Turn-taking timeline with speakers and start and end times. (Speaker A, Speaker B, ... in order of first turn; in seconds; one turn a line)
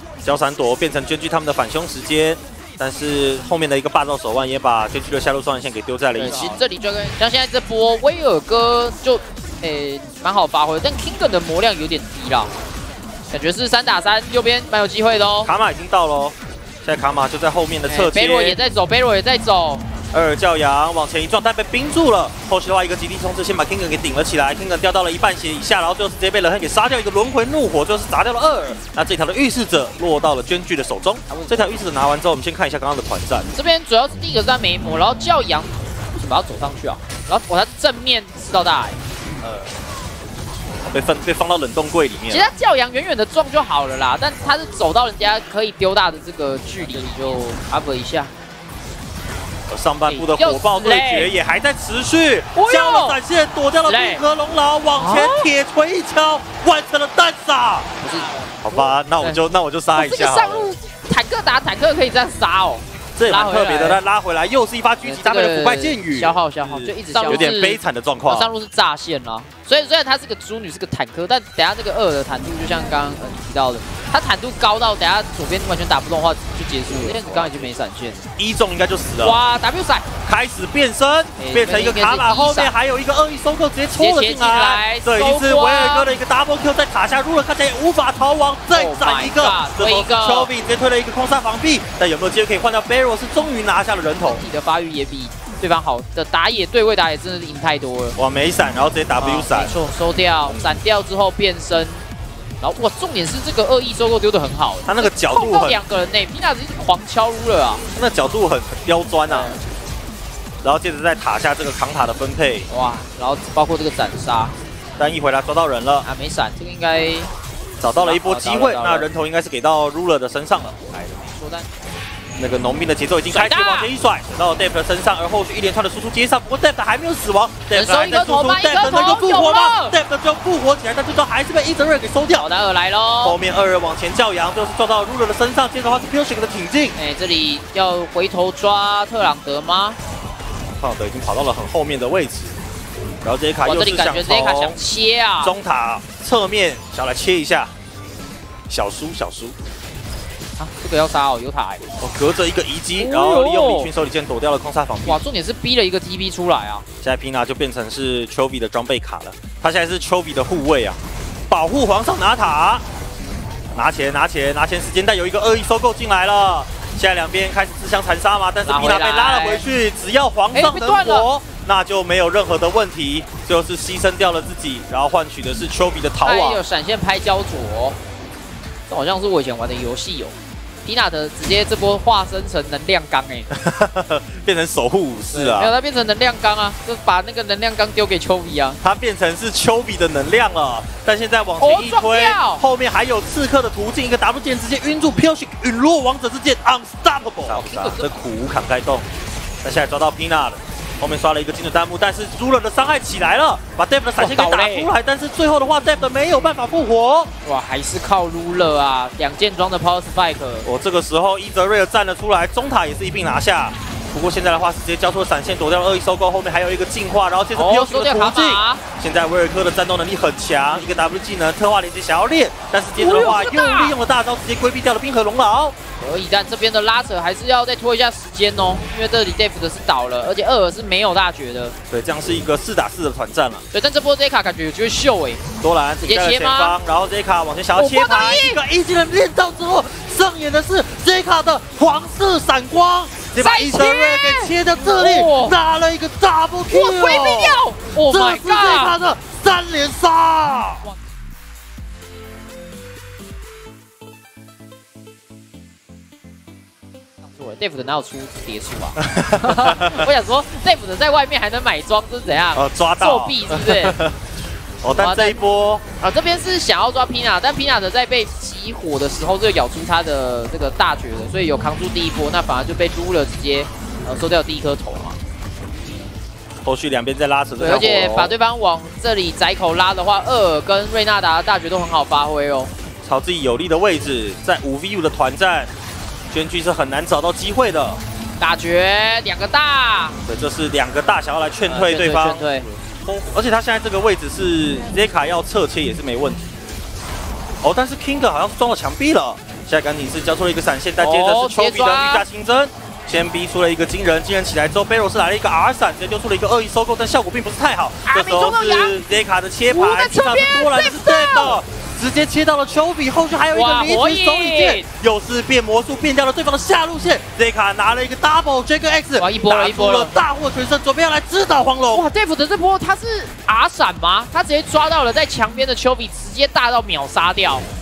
Speaker A: 0.2-6.6
Speaker B: 6.1-12.5
Speaker B: 13.3-15.5
Speaker A: 15.4-18.6
Speaker B: 17.9-19.9
Speaker A: 20.1-33.5
Speaker B: 31.3-31.8
Speaker B: 33.5-39.0
Speaker A: 39.4-39.7
Speaker A: 40.9-42.5
Speaker B: 42.3-48.3
Speaker A: 46.8-47.2
Speaker A: 49.7-57.9
Speaker B: 50.1-51.3
Speaker B: 52.5-53.2
Speaker B: 53.8-54.2
Speaker B: 55.0-55.5
Speaker B: 58.0-59.4
Speaker A: 58.6-60.7
Speaker B: 60.0-64.0
Speaker A: 63.1-68.5
Speaker B: 65.0-78.3
Speaker A: 76.8-77.7
Speaker A: 78.4-79.4
Speaker B: 79.2-80.1
Speaker A: 80.2-94.4
Speaker B: 81.4-82.7
Speaker B: 84.0-86.1
Speaker B: 88.7-90.5
Speaker B: 94.2-98.2
Speaker A: 98.2-99.8
Speaker B: 99.2-102.0
Speaker A: 100.4-100.7
Speaker B: 102.6-107.8
Speaker A: 104.8-105.8
Speaker A: 107.9-109.6
Speaker B: 109.3-109.6
Speaker A: 110.6-112.7
Speaker B: 112.7-114.5
Speaker A: 115.0-116.1
Speaker B: 116.0-117.3
Speaker A: 117.8-121.0
Speaker B: 118.0-119.1
Speaker B: 120.9-121.7
Speaker A: 122.4-132.5
Speaker B: 123.3-123.9
Speaker B: 127.7-129.9
Speaker B: 132.3-133.4
Speaker A: 133.2-136.9
Speaker B: 136.9-140.0
Speaker A: 140.8-142.6
Speaker A: 143.2-144.8
Speaker B: 143.6-145.5
Speaker A: 145.4-147.7
Speaker A: 148.7-149.6
Speaker B: 150.6-151.8
Speaker A: 152.0-155.2
Speaker B: 153.0-153.9
Speaker B: 155.0-156.8
Speaker A: 157.0-162.8
Speaker A: 163.7-176.6
Speaker B: 168.6-169.7
Speaker B: 170.5-171.3
Speaker B: 176.2-178.0
Speaker B: 178.9-183.5
Speaker A: 183.5-185.7
Speaker B: 185.3-188.8
Speaker A: 188.8-199.1
Speaker B: 191.6-192.6
Speaker B: 197.5-198.1
Speaker A: 199.6-207.3
Speaker B: 204.2-204.9
Speaker B: 207.4-210.7
Speaker A: 210.6-225.7
Speaker B: 217.5-218.8
Speaker B: 223.0-223.9
Speaker B: 226.0-231.7
Speaker A: 231.9-233.6
Speaker B: 233.7-235.4
Speaker A: 235.6-250.9
Speaker B: 236.0-236.8
Speaker B: 237.7-238.6
Speaker B: 243.3-245.6
Speaker B: 246.7-248.9
Speaker B: 257.3-264.0
Speaker A: 259.0-260.0
Speaker A: 262.5-264.2
Speaker A: 264.8-265.8
Speaker B: 264.9-265.4
Speaker B: 266.0-275.2
Speaker A: 276.6-278.4
Speaker B: 277.6-282.7
Speaker A: 283.0-285.7
Speaker A: 286.3-288.0
Speaker B: 288.4-290.2
Speaker A: 290.2-296.5
Speaker B: 291.6-292.7
Speaker A: 297.6-322.1
Speaker B: 301.0-302.2
Speaker B: 308.0-309.0
Speaker B: 309.7-311.6
Speaker B: 313.5-314.8
Speaker B: 319.2-320.1
Speaker B: 321.9-327.7